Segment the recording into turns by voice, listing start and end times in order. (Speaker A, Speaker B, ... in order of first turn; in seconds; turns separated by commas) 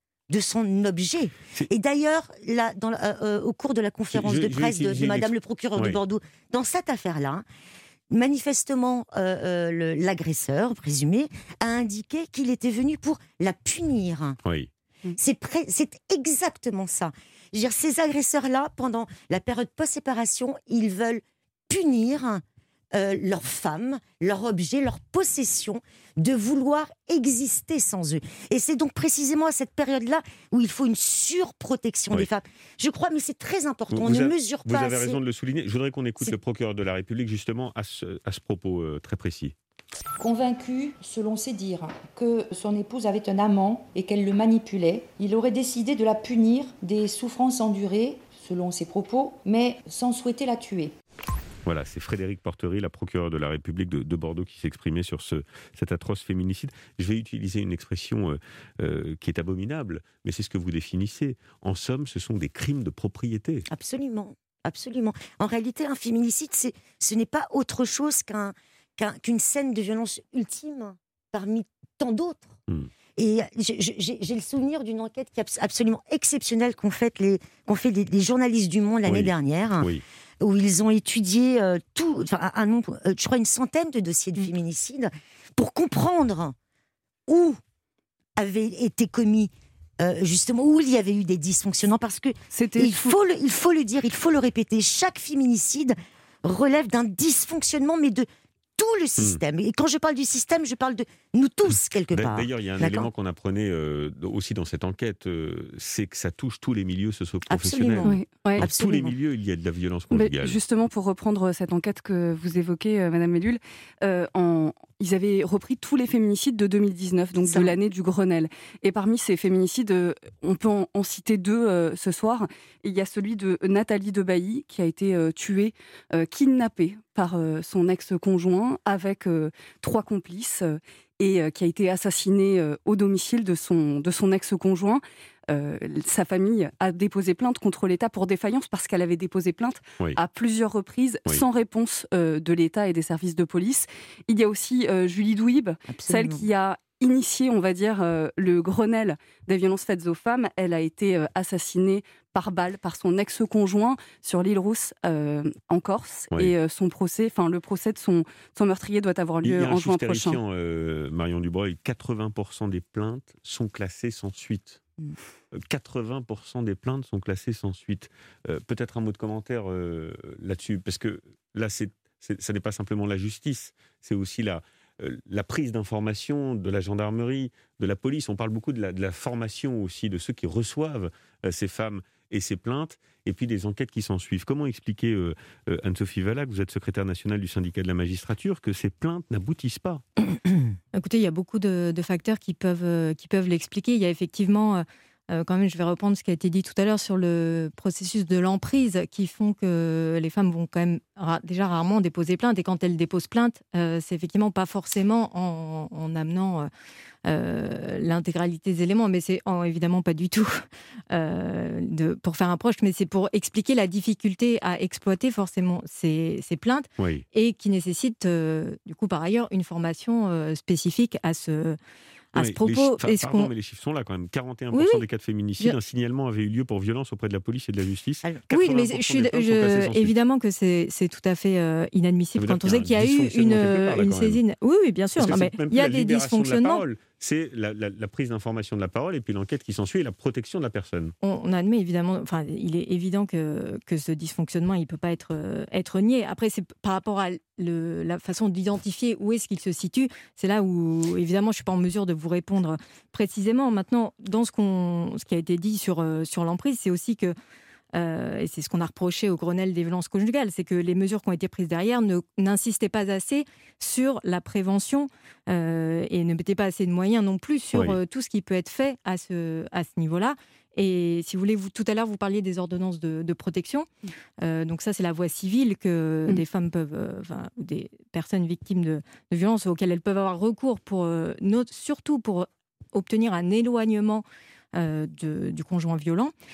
Speaker A: 0.3-7.4, Speaker B: 4.1-6.0, Speaker A: 8.1-14.4, Speaker A: 15.1-35.2, Speaker B: 33.9-39.5, Speaker C: 40.2-50.9, Speaker B: 51.6-63.6, Speaker A: 63.7-72.6, Speaker A: 73.2-79.9, Speaker B: 79.0-80.0, Speaker A: 80.4-86.5, Speaker A: 87.3-87.6, Speaker A: 88.4-98.3, Speaker D: 92.5-93.1, Speaker A: 98.8-103.1, Speaker B: 102.1-110.6, Speaker A: 107.5-109.1, Speaker D: 110.1-160.4, Speaker A: 117.4-117.7, Speaker A: 145.9-146.5, Speaker B: 159.4-164.8, Speaker B: 165.5-190.0, Speaker E: 190.9-206.7, Speaker E: 207.2-221.8, Speaker B: 217.0-217.2, Speaker E: 222.3-223.5, Speaker B: 222.3-230.1, Speaker E: 224.7-225.0, Speaker E: 228.5-236.8, Speaker B: 232.3-234.4, Speaker B: 235.2-241.1, Speaker E: 241.2-257.3, Speaker E: 257.9-273.9, Speaker B: 267.7-268.0, Speaker E: 274.4-286.3